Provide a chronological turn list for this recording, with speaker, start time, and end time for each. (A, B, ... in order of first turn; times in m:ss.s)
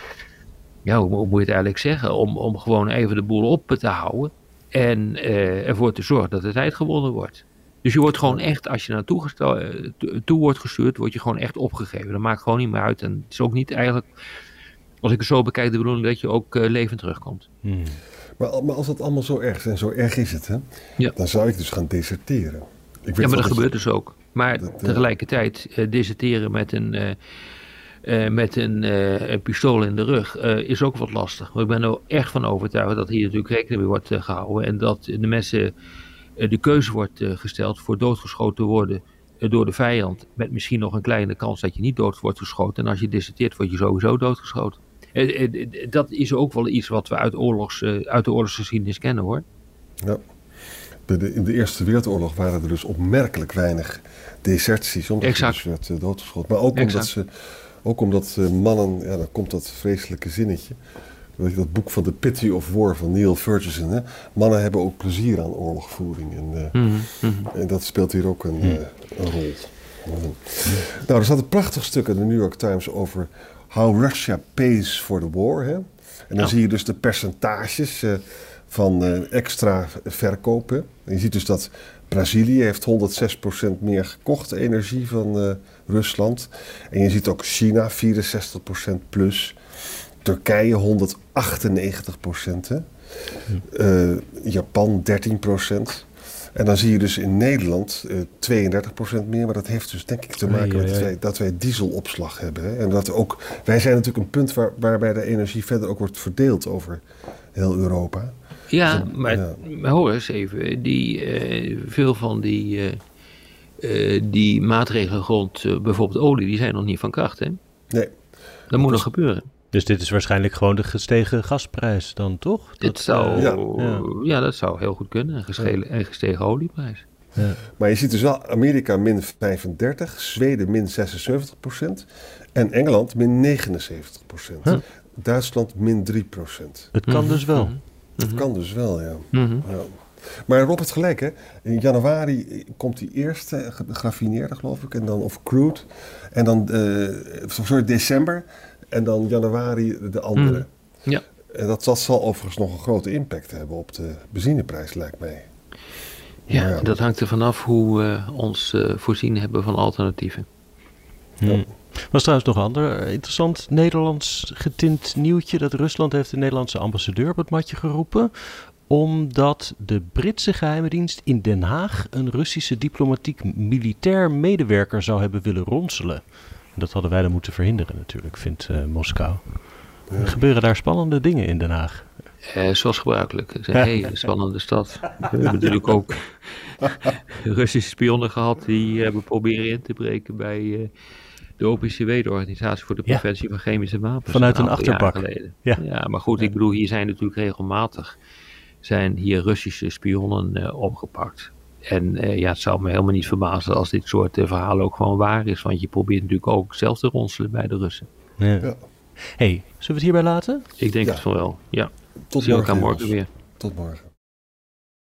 0:00.8-0:14.0 A
0:15.0-0:17.5 A
0:17.6-0:18.0 B
0:18.4-0:23.7 C
0:23.2-0:27.2 A
0:24.6-0:25.0 C
0:28.0-0:35.7 A
0:36.4-0:49.4 A
0:51.1-0:57.3 C
0:55.2-0:55.6 A
0:56.7-0:57.1 A
0:57.8-1:00.8 C
1:01.4-1:29.6 C
1:06.7-1:07.5 A
1:30.2-1:32.8 C
1:33.6-1:47.0 C
1:40.5-1:40.9 B
1:40.7-1:41.1 A
1:47.5-1:49.6 C
1:48.7-1:53.0 A
1:53.8-1:57.6 A
1:58.7-1:59.5 A
1:58.7-1:59.1 C
1:59.7-2:04.0 B
2:02.8-2:07.0 A
2:03.3-2:03.6 C
2:07.4-2:07.6 B
2:07.8-2:16.9 C
2:16.9-2:17.8 B
2:17.1-2:18.4 A
2:18.2-2:30.7 C
2:19.3-2:19.6 A
2:30.4-2:31.2 A
2:31.5-2:35.5 C
2:36.5-2:40.5 A
2:36.5-2:36.9 C
2:41.4-3:02.1 B
3:00.1-3:00.4 C
3:02.5-3:10.9 A
3:11.6-3:18.2 A
3:14.3-3:15.8 B
3:18.8-3:28.1 A
3:28.4-3:28.7 B
3:29.2-3:30.6 B
3:30.8-3:33.3 A
3:32.3-3:34.1 C